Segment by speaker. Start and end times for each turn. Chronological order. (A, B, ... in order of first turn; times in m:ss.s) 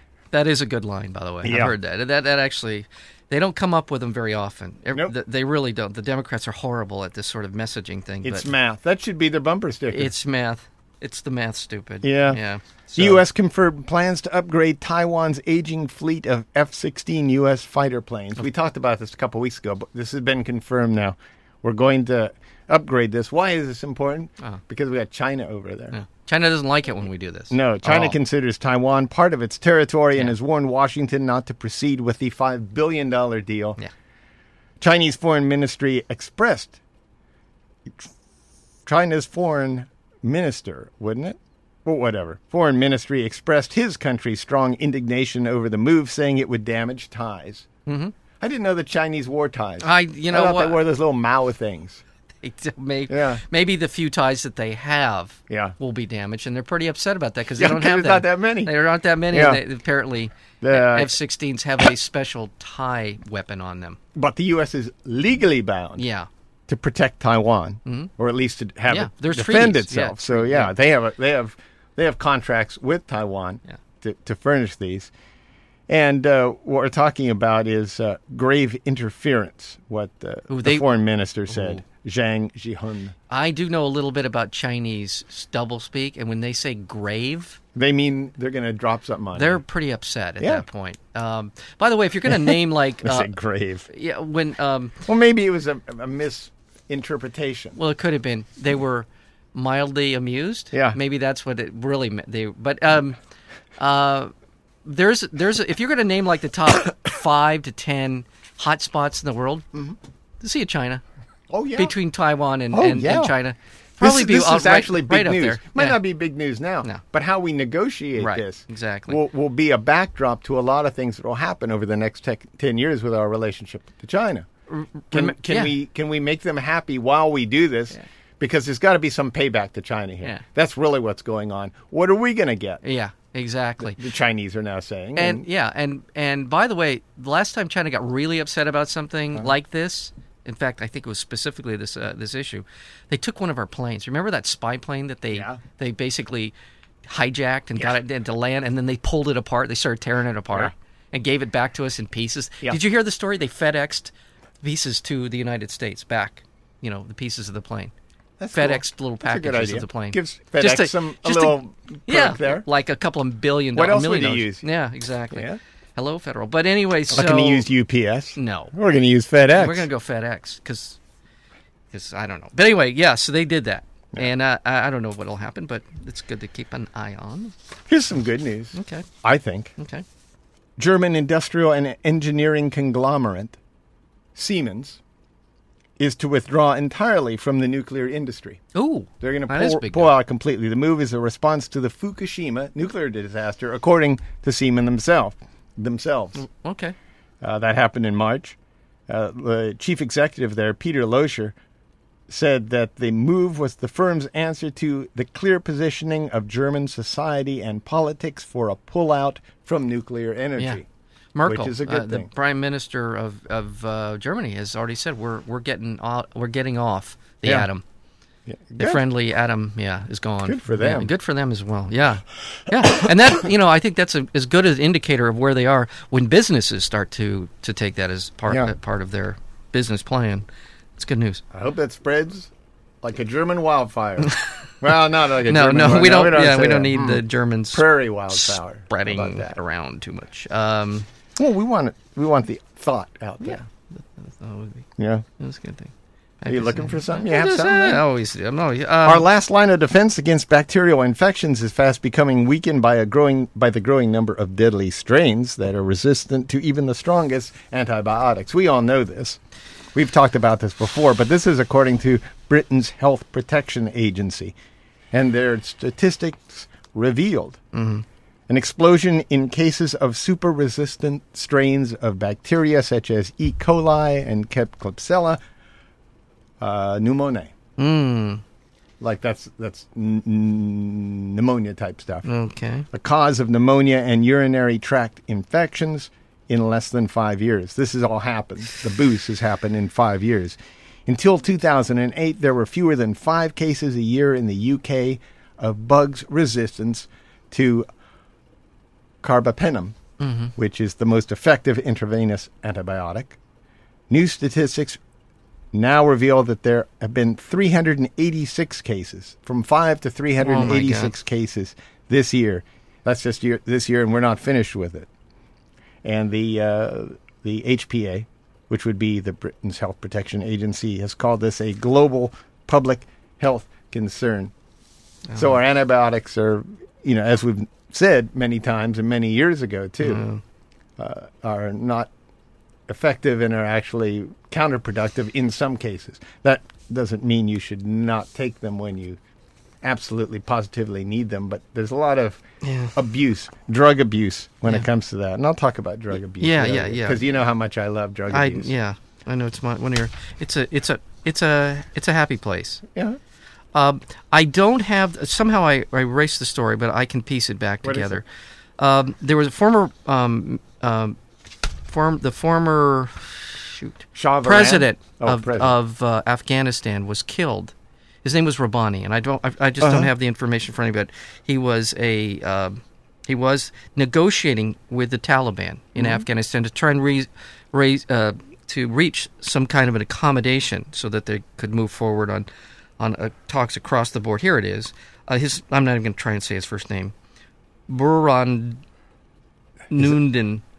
0:00.3-0:08.5 A
0:01.4-0:01.7 B
0:08.2-0:10.1 B
0:09.9-0:13.2 A
0:12.0-0:12.4 B
0:13.0-0:26.0 B
0:25.9-0:28.2 A
0:27.5-0:33.8 B
0:34.8-0:36.8 B
0:38.9-0:47.7 B
0:47.9-0:48.1 A
0:48.4-0:52.0 B
0:49.8-0:50.8 A
0:52.4-1:04.0 A
0:53.1-0:53.4 B
0:55.5-0:55.8 B
0:57.6-0:58.8 B
0:59.3-0:59.6 B
1:00.6-1:01.1 B
1:04.2-1:06.1 B
1:06.0-1:06.3 A
1:06.7-1:15.1 B
1:08.9-1:10.7 A
1:15.9-1:23.2 B
1:20.5-1:20.8 A
1:21.5-1:21.8 A
1:23.3-1:27.6 A
1:27.8-1:29.6 B
1:29.4-1:33.3 A
1:30.4-1:30.6 B
1:32.3-1:33.9 B
1:33.9-1:35.0 A
1:35.0-1:37.8 B
1:37.8-1:43.2 A
1:43.8-1:44.3 A
1:44.8-1:49.7 A
1:50.4-1:51.0 A
1:51.5-1:52.0 B
1:51.8-1:56.0 A
1:52.7-1:53.4 B
1:54.0-2:04.5 B
1:58.2-1:59.2 A
2:04.7-2:05.7 A
2:05.1-2:12.8 B
2:12.8-2:14.0 A
2:13.8-2:15.4 B
2:15.2-2:26.5 A
2:25.3-2:25.6 B
2:27.0-2:37.9 A
2:38.4-2:42.6 B
2:38.5-2:47.7 A
2:43.8-2:44.6 B
2:45.3-2:45.6 B
2:47.1-2:49.9 B
2:48.4-2:48.7 A
2:49.5-2:51.0 A
2:51.9-2:57.5 A
2:57.9-2:59.7 B
2:58.8-2:59.1 A
2:59.8-3:00.0 A
3:00.8-3:03.6 B
3:04.4-3:05.0 B
3:06.0-3:08.6 B
3:08.7-3:10.1 A
3:09.2-3:16.4 B
3:16.4-3:17.0 A
3:17.4-3:18.6 B
3:19.1-3:21.6 B
3:22.3-3:30.8 B
3:31.4-3:37.8 A
3:31.5-3:32.3 B
3:38.5-3:39.0 B
3:38.8-3:51.4 A
3:40.5-3:41.1 B
3:51.5-3:52.5 B
3:53.0-3:59.6 B
3:54.2-3:54.5 A
3:55.3-4:01.1 A
4:01.4-4:03.6 B
4:03.4-4:04.9 A
4:05.0-4:05.2 B
4:05.4-4:09.2 A
4:06.5-4:08.0 B
4:09.1-4:19.4 B
4:20.0-4:24.5 B
4:25.1-4:27.6 B
4:27.7-4:28.0 A
4:28.5-4:35.4 B
4:36.6-4:37.5 B
4:37.8-4:38.4 A
4:39.0-4:42.3 B
4:42.2-4:42.9 A
4:42.9-4:57.8 B
4:59.2-5:00.0 B
5:00.2-5:00.5 A
5:00.6-5:03.4 B
5:04.1-5:05.0 B
5:05.7-5:15.1 B
5:10.4-5:11.1 A
5:16.0-5:24.5 B
5:25.3-5:25.6 A
5:25.4-5:30.3 B
5:30.0-5:30.4 A
5:31.0-5:32.1 B
5:32.9-5:39.2 B
5:39.8-5:42.4 B
5:42.6-5:42.9 A
5:42.9-5:48.7 B
5:46.4-5:47.2 A
5:48.3-5:52.8 A
5:53.7-5:58.2 A
5:57.8-5:58.2 B
5:58.8-6:01.2 A
6:01.9-6:22.5 A
6:04.2-6:05.8 B
6:09.8-6:10.1 B
6:16.0-6:16.2 B
6:23.0-6:27.1 A
6:27.9-6:28.8 A
6:29.9-6:30.6 A